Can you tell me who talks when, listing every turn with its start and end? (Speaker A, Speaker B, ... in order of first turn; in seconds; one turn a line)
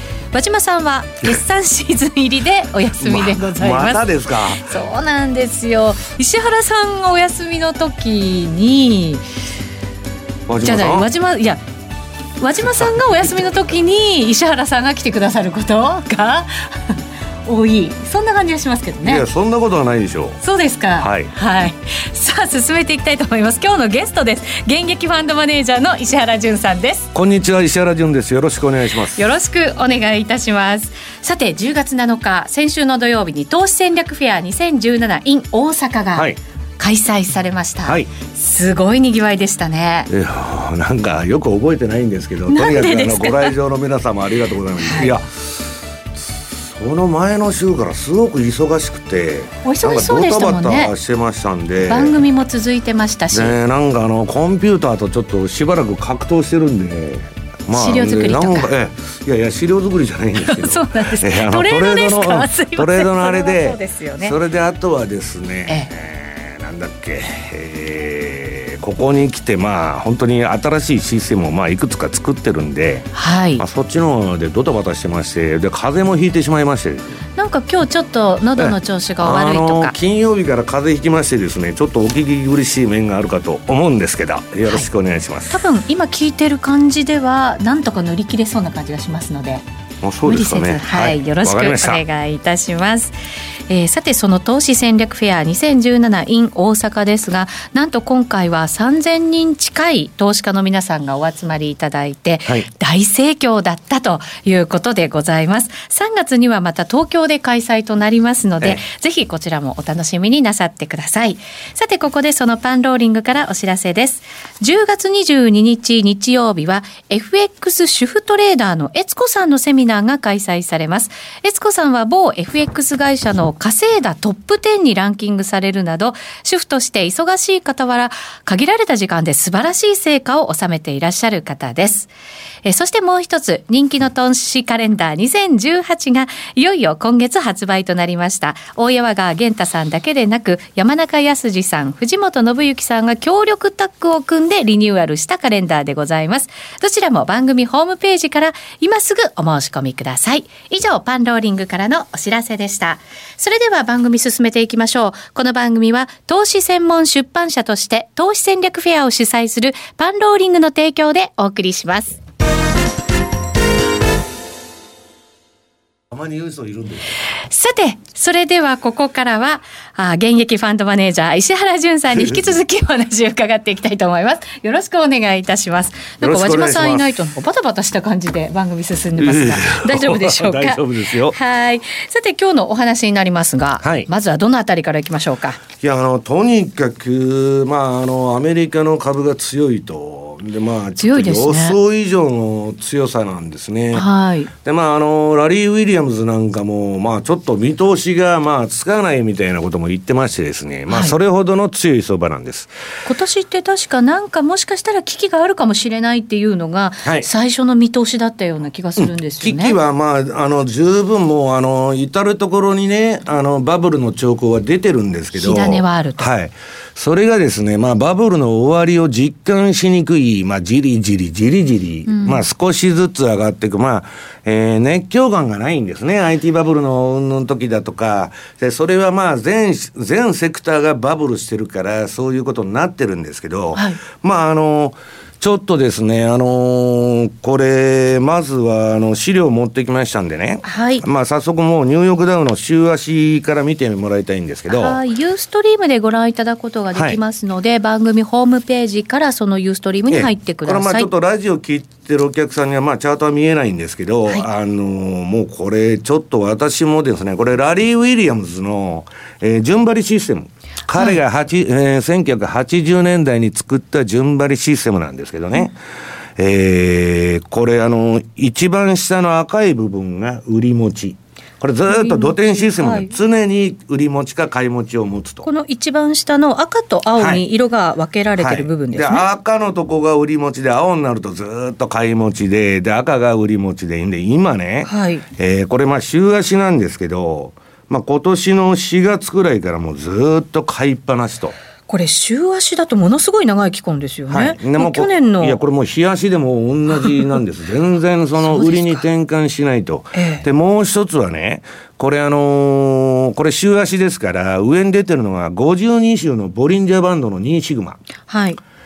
Speaker A: 0.3-4.0
Speaker B: 3.0-4.7
Speaker A: 4.5-9.2
Speaker B: 10.5-11.1
Speaker A: 10.6-11.6
Speaker A: 12.4-19.2
Speaker B: 12.6-13.0
Speaker B: 19.1-20.4
Speaker A: 20.4-27.1
Speaker B: 21.0-21.3
Speaker B: 27.1-29.2
Speaker A: 29.1-40.1
Speaker B: 37.8-38.1
Speaker B: 40.1-52.2
Speaker A: 42.5-43.5
Speaker A: 44.8-45.1
Speaker A: 49.6-50.9
Speaker A: 51.9-53.5
Speaker B: 53.3-77.2
Speaker A: 57.7-58.7
Speaker A: 60.3-64.4
Speaker A: 73.1-73.6
Speaker A: 77.3-79.9
Speaker B: 78.6-85.6
Speaker A: 85.5-89.6
Speaker B: 90.0-92.0
Speaker A: 90.2-93.1
Speaker A: 93.7-132.1
Speaker A: 132.6-162.2
Speaker B: 166.1-167.1
Speaker A: 167.5-185.6
Speaker B: 176.2-177.2
Speaker B: 179.2-181.4
Speaker B: 183.8-184.1
Speaker B: 185.8-194.0
Speaker A: 191.0-191.8
Speaker A: 193.9-194.5
Speaker B: 194.6-202.7
Speaker A: 200.9-201.1
Speaker A: 203.0-209.8
Speaker B: 207.0-207.3
Speaker B: 209.0-245.0
Speaker A: 215.3-216.3
Speaker A: 222.1-222.4
Speaker A: 233.7-234.0
Speaker A: 240.6-241.0
Speaker A: 244.7-251.1
Speaker B: 250.1-265.8
Speaker B: 266.4-275.5
Speaker A: 271.9-273.1
Speaker A: 275.4-279.3
Speaker B: 277.2-277.4
Speaker B: 278.4-291.5
Speaker A: 284.9-285.2
Speaker A: 291.9-295.6
Speaker B: 294.3-308.0
Speaker A: 297.0-297.3
Speaker A: 298.4-299.0
Speaker A: 300.1-300.4
Speaker A: 308.3-308.6